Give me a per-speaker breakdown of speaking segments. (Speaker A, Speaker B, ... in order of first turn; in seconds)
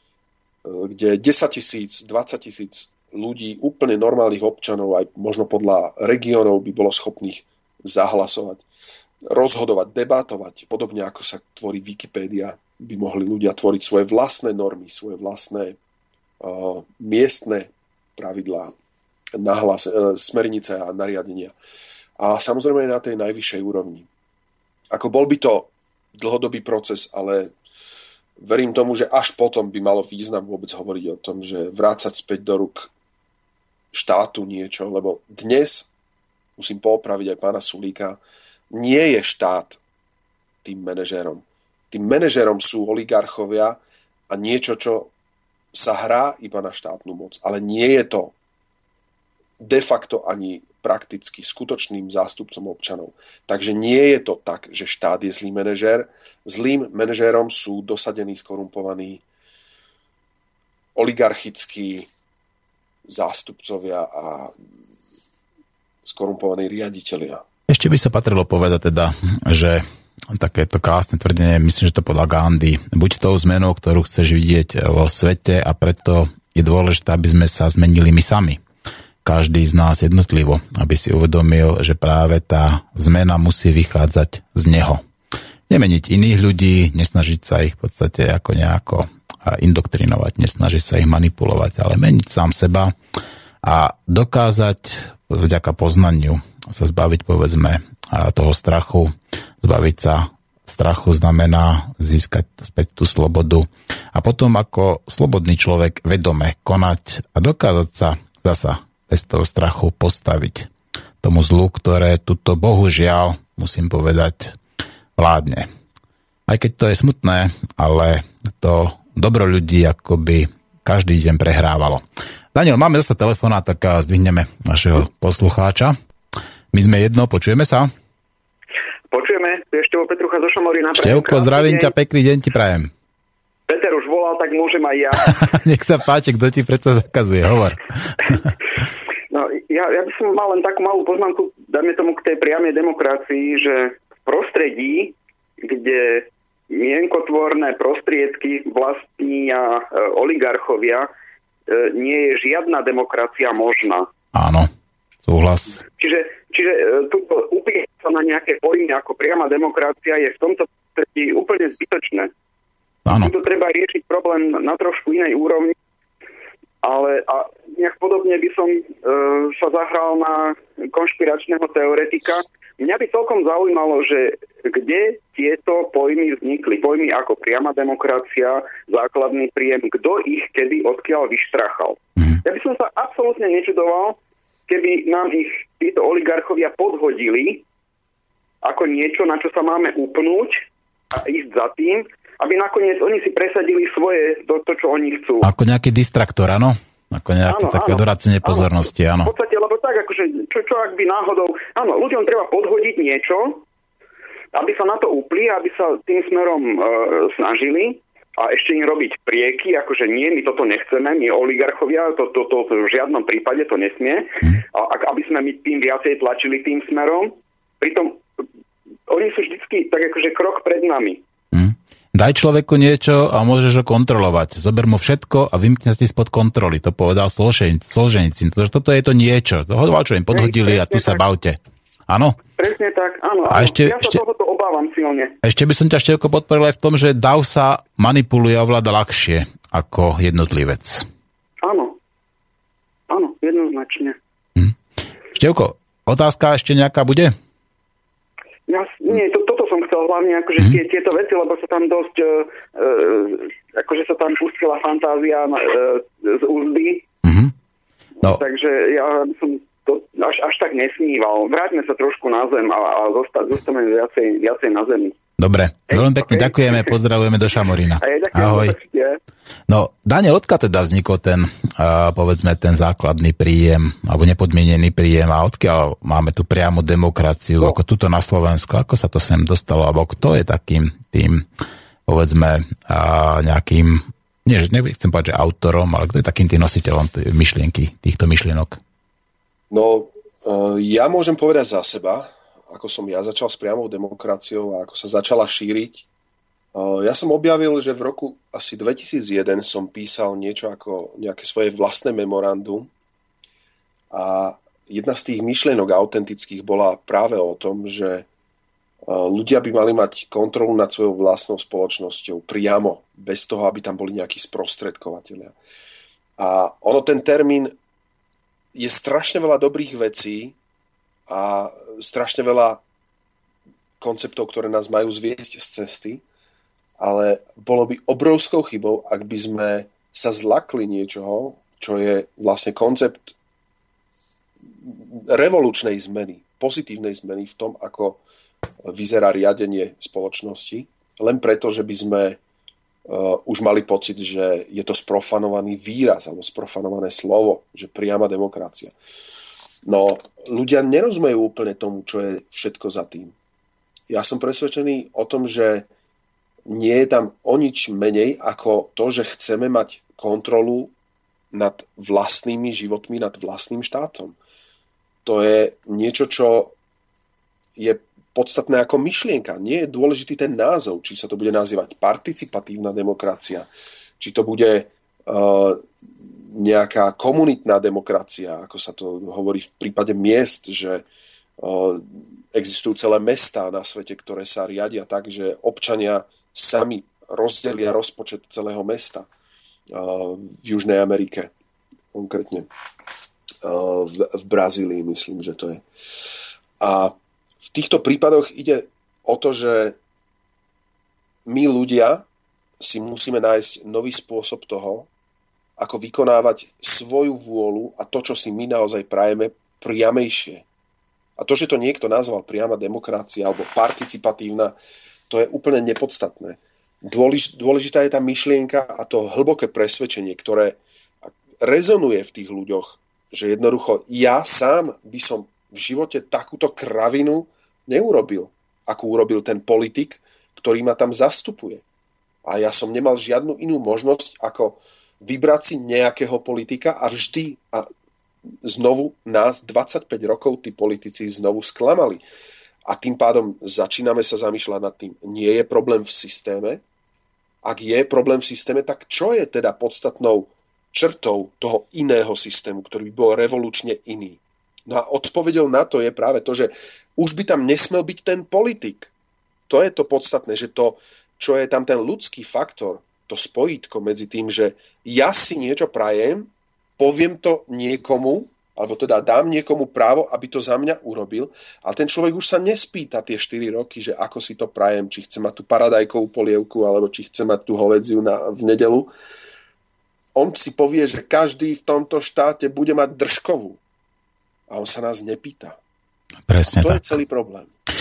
Speaker A: 0.6-8.7, 9.3-15.8, 16.4-18.7, 19.4-21.5, 22.2-24.1, 24.9-27.5, 28.4-32.9, 33.9-35.9, 36.6-38.2, 38.7-39.8, 40.6-43.8, 44.3-45.1, 45.7-48.3, 49.6-59.2, 60.9-62.1, 63.1-64.5, 66.0-67.4, 289.7-296.1, 296.7-302.9, 304.1-308.3, 309.1-315.5, 316.4-317.7, 318.7-320.6, 321.3-322.8, 324.0-326.2, 327.0-333.3, 334.8-338.2, 338.8-342.4, 343.1-348.9, 349.8-353.3, 354.1-355.9, 356.7-360.9, 361.5-364.4, 365.2-366.7, 367.8-373.7, 374.2-381.0, 381.6-389.3, 389.9-391.5, 392.1-392.7, 393.6-395.8, 396.8-397.1, 397.7-399.9, 401.5-402.3, 402.8-405.1, 405.8-410.6, 411.4-414.7, 415.3-431.8, 432.4-437.9, 438.6-442.2, 442.9-446.8, 447.6-459.1, 459.7-479.1, 480.4-483.8, 484.7-485.8, 486.7-487.7
Speaker B: 67.7-78.6, 79.2-85.0, 85.7-92.9, 93.6-110.7, 111.2-114.6, 115.2-115.7, 116.5-125.9, 126.7-127.9, 131.0-132.9, 135.2-138.5, 154.3-154.7, 155.2-155.8, 163.1-163.3, 195.4-199.3, 221.5-232.4, 233.5-234.2, 235.4-241.1, 245.3-247.3, 257.2-257.5, 265.4-268.8, 269.7-281.4, 282.1-288.8, 486.5-487.1
Speaker C: 129.1-131.9, 133.7-135.4, 139.3-151.1, 151.7-154.1, 156.0-162.3, 163.2-165.7, 166.8-187.6, 188.6-195.5, 197.4-203.6, 204.5-218.2, 219.1-221.2, 230.3-231.2, 232.6-235.3, 241.6-241.9, 243.1-244.2, 248.7-257.0, 258.2-265.1, 265.9-266.9, 268.0-269.2